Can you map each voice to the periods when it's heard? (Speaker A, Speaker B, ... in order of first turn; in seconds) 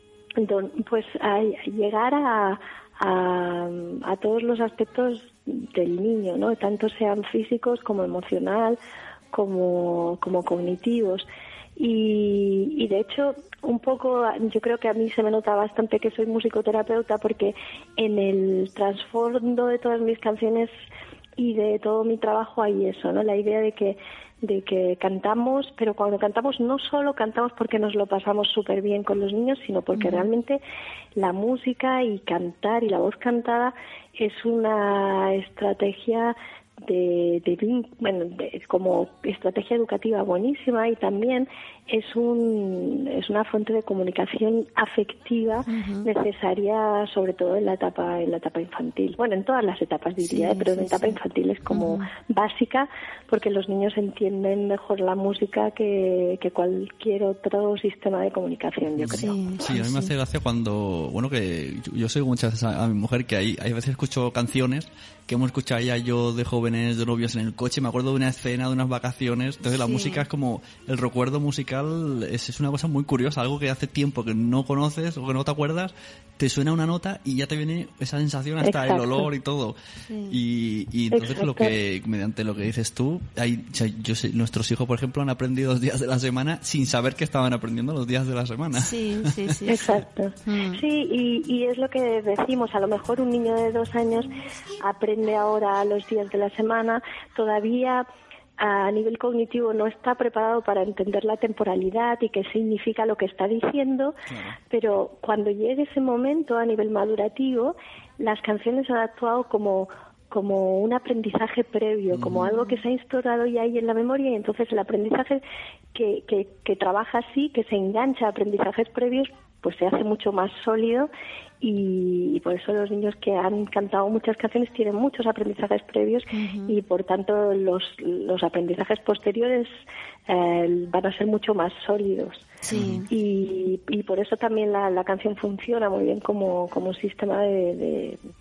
Speaker A: 0.4-8.8, 9.3-11.2, 11.8-20.7, 21.4-30.6, 31.1-59.6, 78.6-79.2, 81.1-81.7, 89.7-98.1, 98.6-104.2, 104.7-115.4, 115.9-121.1, 121.6-129.7, 130.3-132.5, 133.1-138.2
Speaker B: 29.9-30.3, 45.7-46.1, 50.2-51.1, 51.7-52.1, 59.1-60.1, 69.7-70.2, 80.1-80.3, 88.8-89.9, 90.4-90.8, 126.3-126.8, 132.6-133.1
Speaker C: 59.0-79.8, 80.3-89.5, 104.3-104.6, 112.1-112.5, 132.7-133.0